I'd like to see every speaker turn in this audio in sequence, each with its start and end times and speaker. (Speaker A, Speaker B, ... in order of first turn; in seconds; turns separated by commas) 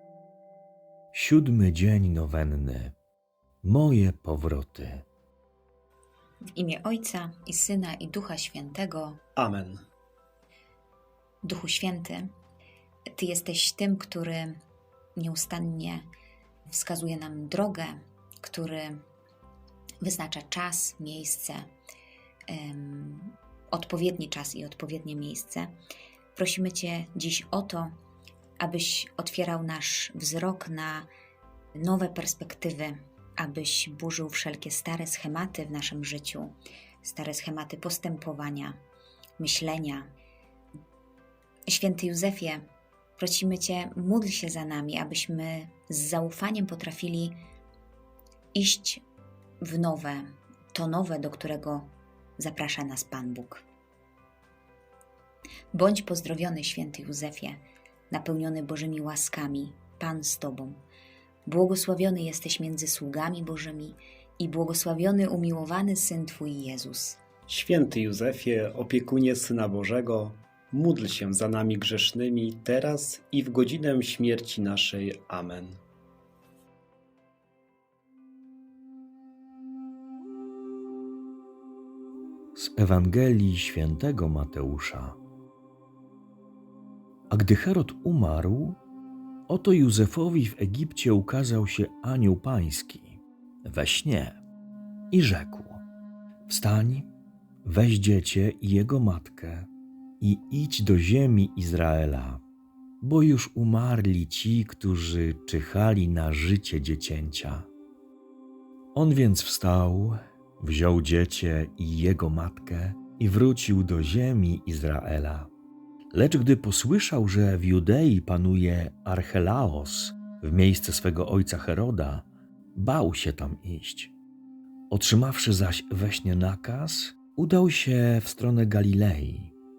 Speaker A: 1.1-3.0, Speaker A: 3.6-5.0, Speaker B: 6.5-9.2, Speaker C: 9.3-9.8, Speaker B: 11.4-12.3, Speaker B: 13.2-14.6, Speaker B: 15.2-16.1, Speaker B: 16.7-19.0, Speaker B: 20.0-21.7, Speaker B: 22.5-25.8, Speaker B: 26.3-27.9, Speaker B: 28.6-31.1, Speaker B: 31.8-38.8, Speaker B: 39.4-40.1, Speaker B: 41.7-47.4, Speaker B: 48.5-49.0, Speaker B: 49.6-53.6, Speaker B: 55.7-60.8, Speaker B: 61.5-67.2, Speaker C: 67.5-75.8, Speaker A: 82.5-85.2, Speaker A: 87.3-88.8, Speaker A: 89.5-94.4, Speaker A: 95.1-95.8, Speaker A: 96.5-97.1, Speaker A: 97.6-99.7, Speaker A: 100.2-102.4, Speaker A: 103.0-107.7, Speaker A: 108.9-115.5, Speaker A: 116.1-124.1, Speaker A: 124.9-129.5